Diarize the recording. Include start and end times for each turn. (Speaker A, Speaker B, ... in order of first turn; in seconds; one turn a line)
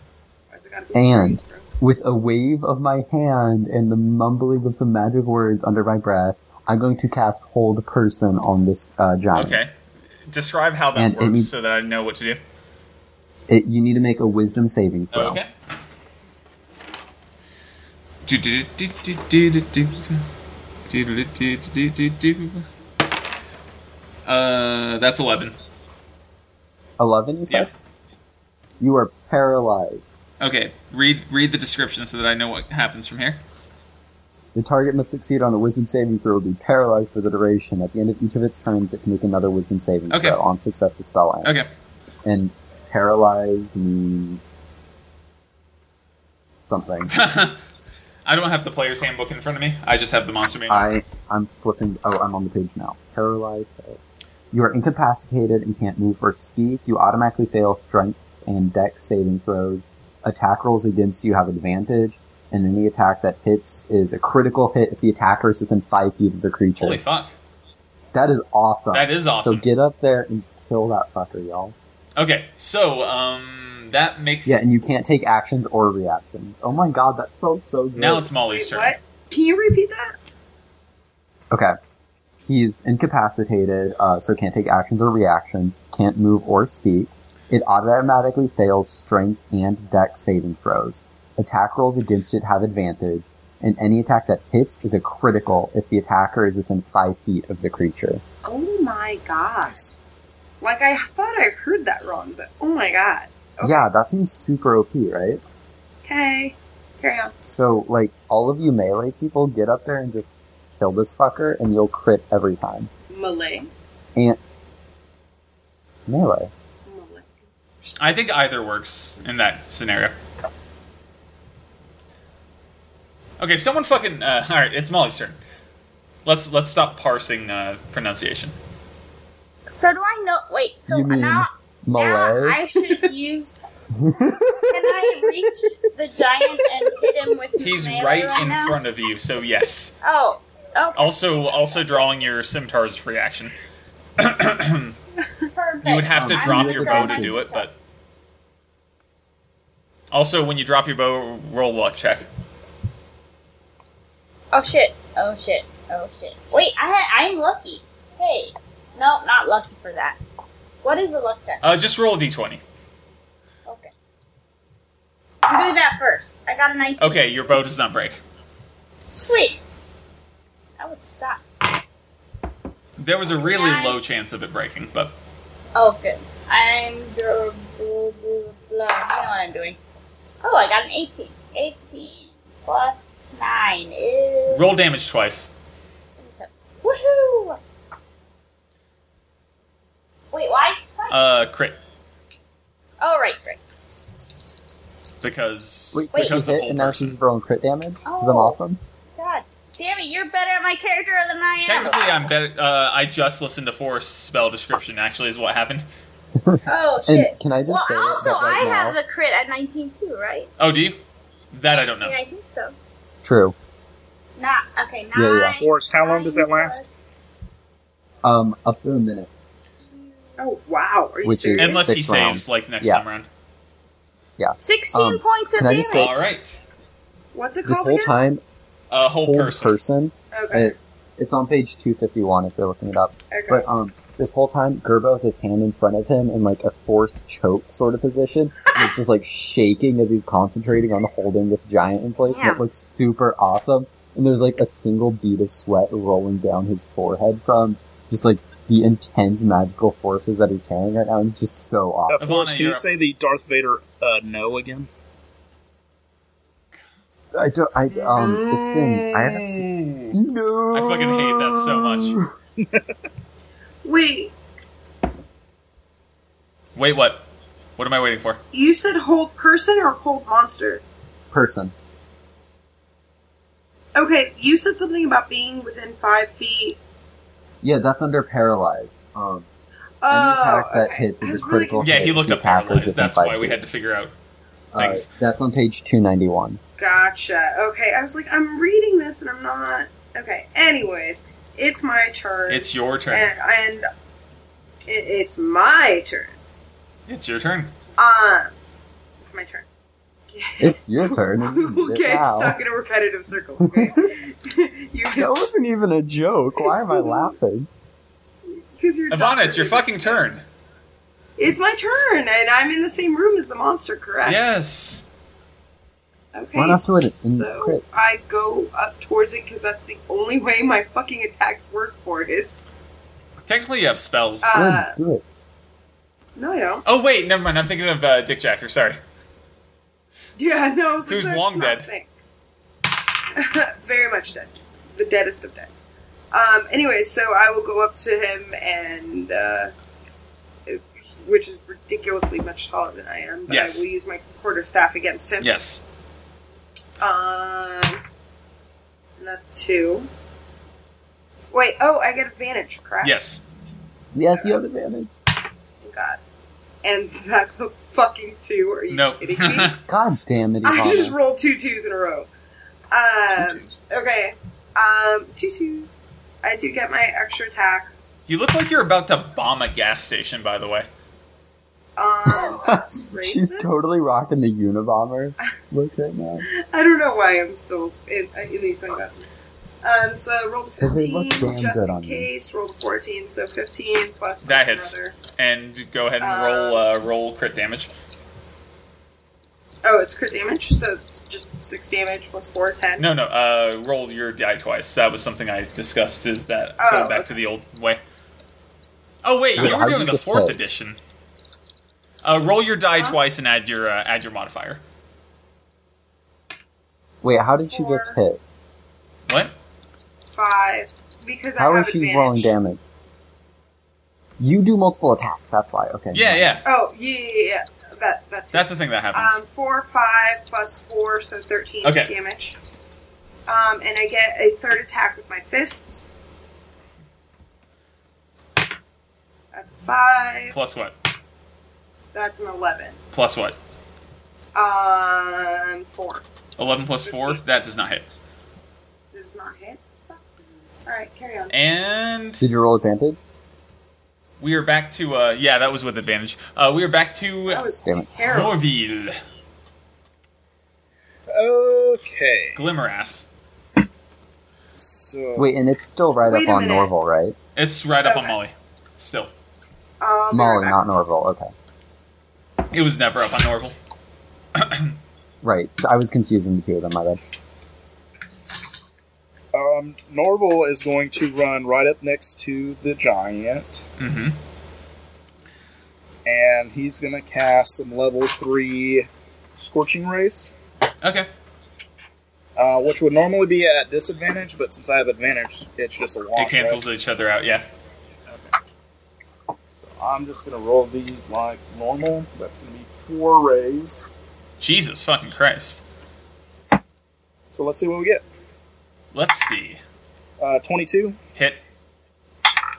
Speaker A: 0.5-1.7
Speaker B: 0.9-9.6
Speaker C: 9.3-9.7
Speaker C: 10.3-12.4
Speaker B: 10.9-11.5
Speaker B: 13.5-15.4
Speaker C: 15.1-15.5
Speaker C: 18.3-20.2
Speaker C: 20.9-22.7
Speaker C: 24.3-25.6
Speaker B: 27.0-27.7
Speaker B: 28.8-30.1
Speaker C: 30.4-33.4
Speaker B: 34.5-41.6
Speaker C: 40.1-40.4
Speaker C: 41.4-41.7
Speaker B: 42.2-44.6
Speaker B: 46.6-47.1
Speaker C: 47.1-47.6
Speaker C: 48.3-50.9
Speaker B: 50.7-54.0
Speaker B: 54.5-67.0
Speaker C: 66.8-67.3
Speaker B: 68.1-71.8
Speaker C: 68.9-69.7
Speaker C: 72.2-74.6
Speaker B: 74.5-78.3
Speaker C: 78.0-79.0
Speaker A: 78.5-80.2
Speaker B: 82.5-98.2
Speaker A: 98.4-99.8
Speaker D: 99.6-99.9
Speaker A: 100.6-103.9
Speaker B: 103.6-105.4
Speaker A: 106.0-107.3
Speaker B: 107.4-112.9
Speaker A: 113.1-113.7
Speaker B: 116.1-116.5
Speaker A: 116.9-118.0
Speaker C: 118.0-120.1
Speaker C: 123.4-125.4
Speaker C: 126.2-128.6
Speaker E: 129.7-133.7
Speaker B: 130.9-132.6
Speaker B: 134.0-135.1
Speaker E: 134.6-138.8
Speaker C: 137.6-139.9
Speaker E: 140.0-141.2
Speaker C: 141.0-143.6
Speaker C: 144.2-145.0
Speaker E: 145.5-147.7
Speaker C: 145.8-147.8
Speaker B: 146.1-147.4
Speaker C: 150.1-152.3
Speaker E: 154.5-160.2
Speaker E: 160.8-161.6
Speaker C: 161.6-162.6
Speaker E: 163.7-163.9
Speaker E: 165.4-167.4
Speaker C: 167.0-168.2
Speaker E: 169.1-169.6
Speaker E: 170.8-171.4
Speaker C: 173.0-175.2
Speaker E: 173.3-174.0
Speaker E: 175.8-179.8
Speaker E: 180.4-184.7
Speaker C: 184.5-185.5
Speaker E: 186.2-187.6
Speaker E: 190.3-191.2
Speaker C: 191.1-191.8
Speaker E: 193.0-193.6
Speaker C: 195.2-197.2
Speaker B: 195.9-198.8
Speaker E: 196.1-196.4
Speaker E: 198.1-198.6
Speaker E: 199.2-202.3
Speaker C: 201.6-205.8
Speaker B: 206.4-209.0
Speaker E: 206.7-210.5
Speaker C: 210.6-211.0
Speaker C: 211.5-212.2
Speaker E: 212.0-212.8
Speaker B: 213.2-213.6
Speaker E: 214.4-216.9
Speaker B: 215.1-215.6
Speaker D: 215.6-216.8
Speaker B: 218.2-219.3
Speaker A: 220.4-221.9
Speaker B: 221.2-223.0
Speaker C: 221.6-223.3
Speaker B: 224.4-226.2
Speaker E: 224.6-226.2
Speaker C: 225.9-226.6
Speaker A: 227.3-228.2
Speaker B: 227.6-228.4
Speaker C: 228.9-229.8
Speaker B: 229.2-252.3
Speaker A: 230.3-230.7
Speaker A: 233.3-233.6
Speaker E: 242.2-242.6
Speaker D: 252.1-254.9
Speaker C: 252.2-252.9
Speaker B: 257.3-262.3
Speaker C: 257.9-260.2
Speaker C: 260.7-262.2
Speaker D: 262.6-262.9
Speaker A: 263.8-264.3
Speaker C: 266.8-267.2
Speaker C: 267.8-268.4
Speaker A: 268.5-270.8
Speaker B: 271.3-271.7
Speaker A: 273.9-276.8
Speaker B: 277.6-279.5
Speaker A: 280.0-282.1
Speaker B: 280.1-283.6
Speaker C: 281.8-284.1
Speaker B: 284.7-286.6
Speaker C: 284.8-285.1
Speaker A: 286.8-293.9
Speaker C: 292.5-293.3
Speaker A: 294.9-296.4
Speaker C: 297.1-297.7
Speaker A: 298.0-298.5
Speaker A: 299.2-299.7
Speaker A: 300.3-305.5
Speaker B: 300.6-302.6
Speaker B: 303.6-304.2
Speaker B: 305.1-307.7
Speaker A: 306.6-307.4
Speaker A: 308.5-310.2
Speaker C: 309.1-310.4
Speaker A: 311.4-314.4
Speaker C: 314.2-315.1
Speaker A: 316.3-322.6
Speaker B: 316.6-317.8
Speaker C: 323.5-324.6
Speaker A: 324.4-324.9
Speaker B: 324.5-325.2
Speaker A: 326.4-326.8
Speaker C: 326.9-329.0
Speaker A: 330.4-332.1
Speaker C: 331.1-331.9
Speaker A: 333.3-335.7
Speaker A: 336.3-339.7
Speaker A: 340.7-345.5
Speaker C: 343.5-343.9
Speaker C: 345.4-345.8
Speaker A: 347.0-348.0
Speaker A: 349.2-350.1
Speaker A: 351.5-353.1
Speaker C: 353.0-353.4
Speaker B: 354.1-355.1
Speaker A: 355.8-356.2
Speaker A: 356.8-359.8
Speaker C: 358.9-359.8
Speaker B: 359.9-361.2
Speaker A: 360.6-362.3
Speaker A: 362.9-367.9
Speaker D: 363.3-363.8
Speaker C: 368.3-370.9
Speaker A: 372.0-373.8
Speaker B: 372.3-376.5
Speaker A: 376.5-379.3
Speaker A: 379.8-385.2
Speaker B: 380.8-382.3
Speaker C: 384.4-387.9
Speaker A: 386.2-386.9
Speaker A: 389.8-393.1
Speaker C: 393.0-398.0
Speaker A: 396.8-397.4
Speaker C: 399.2-401.0
Speaker B: 399.6-400.6
Speaker C: 402.2-404.8
Speaker B: 407.2-408.4
Speaker A: 407.7-408.2
Speaker C: 409.3-409.5
Speaker A: 410.3-412.6
Speaker B: 411.6-412.8
Speaker B: 414.4-416.6
Speaker C: 416.1-416.6
Speaker A: 416.6-422.6
Speaker C: 418.5-419.4
Speaker C: 421.8-422.1
Speaker A: 423.5-426.1
Speaker A: 429.5-430.6
Speaker C: 430.5-431.0
Speaker A: 432.1-433.0
Speaker C: 433.1-433.6
Speaker A: 434.6-436.2
Speaker C: 436.6-438.1
Speaker A: 437.1-437.4
Speaker A: 439.1-441.5
Speaker C: 441.5-442.4
Speaker B: 442.4-443.2
Speaker C: 444.4-447.7
Speaker A: 447.5-448.6
Speaker B: 447.8-448.1
Speaker C: 448.3-449.2
Speaker D: 451.3-452.6
Speaker C: 452.6-453.3
Speaker D: 454.8-455.5
Speaker B: 455.4-457.4
Speaker A: 456.2-456.9
Speaker C: 457.6-459.3
Speaker A: 458.0-458.4
Speaker A: 460.0-460.8
Speaker B: 460.3-461.5
Speaker C: 462.7-463.8
Speaker C: 464.6-465.0
Speaker B: 465.4-467.2
Speaker D: 469.5-473.9
Speaker C: 474.0-474.4
Speaker D: 476.2-480.5
Speaker C: 481.0-481.3
Speaker D: 482.6-486.8
Speaker C: 486.4-487.6
Speaker D: 488.3-488.5
Speaker D: 489.8-494.1
Speaker C: 494.6-495.8
Speaker D: 497.5-498.2
Speaker C: 499.1-499.8
Speaker D: 500.4-501.2
Speaker C: 501.4-501.6